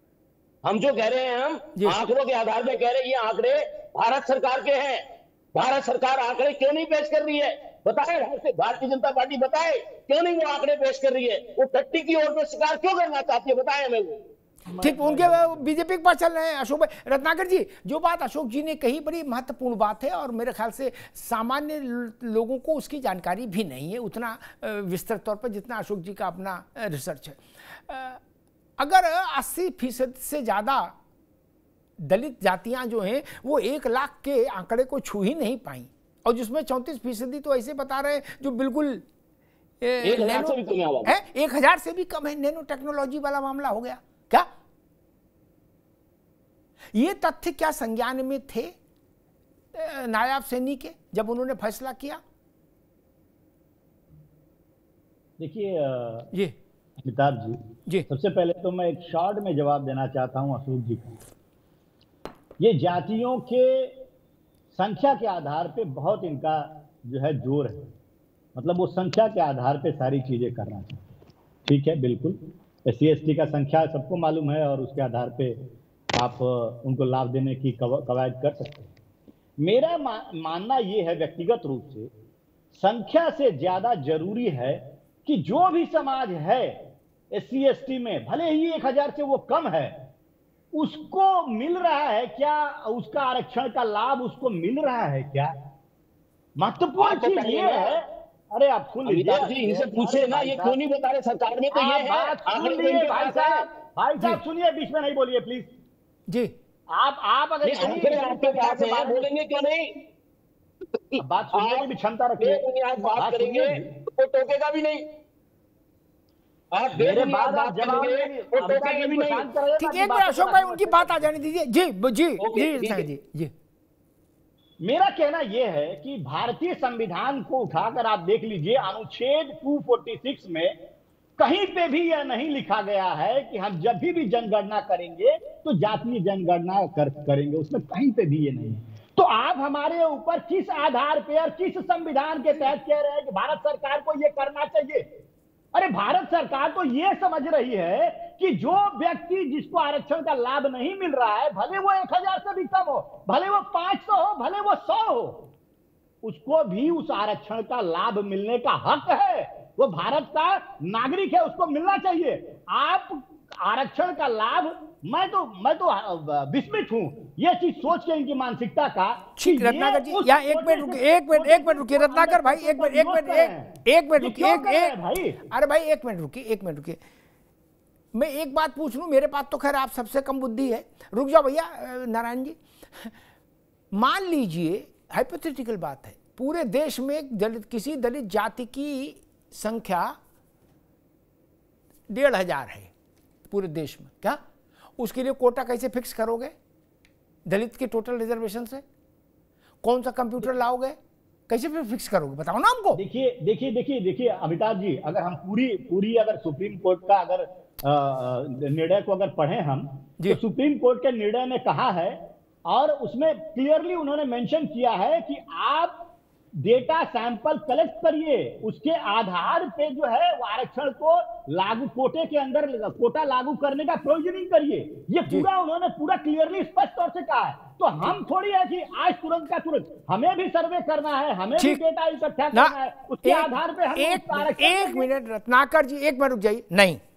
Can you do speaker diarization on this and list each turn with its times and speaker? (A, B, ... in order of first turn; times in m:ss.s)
0:00.6-0:14.2 A
0:14.7-0:15.6 B
0:14.8-0:28.2 C
0:28.8-0:31.0 C
0:32.0-0:39.0 C
0:39.8-0:44.5 C
0:40.0-0:41.2 A
0:46.9-0:48.7 C
0:49.7-0:52.2 C
0:55.4-0:56.3 B
0:57.0-1:01.2 B
1:02.6-1:04.0 B
1:04.8-1:07.9 B
1:08.6-1:11.1 B
1:11.6-1:15.6 B
1:16.1-1:18.9 B
1:19.6-1:22.1 B
1:22.8-1:30.1 B
1:30.7-1:35.6 B
1:36.6-1:40.8 B
1:37.0-1:38.0 A
1:39.0-1:43.7 A
1:41.7-1:45.7 B
1:46.3-1:46.5 C
1:46.9-1:49.3 B
1:47.6-1:49.9 A
1:51.1-1:51.9 A
1:51.2-1:53.9 B
1:52.4-1:55.0 A
1:56.7-1:59.5 A
1:57.0-2:01.2 B
1:59.8-2:03.5 C
2:02.4-2:03.1 A
2:04.8-2:10.8 B
2:11.4-2:25.1 B
2:25.7-2:35.5 B
2:36.2-2:55.4 B
2:49.4-2:57.0 C
2:58.1-3:03.2 C
3:03.9-3:10.2 C
3:12.1-3:12.9 C
3:13.5-3:14.4 C
3:15.0-3:16.5 C
3:17.5-3:18.8 C
3:19.8-3:21.0 C
3:21.5-3:23.0 C
3:23.0-3:55.1 B
3:52.5-3:57.0 C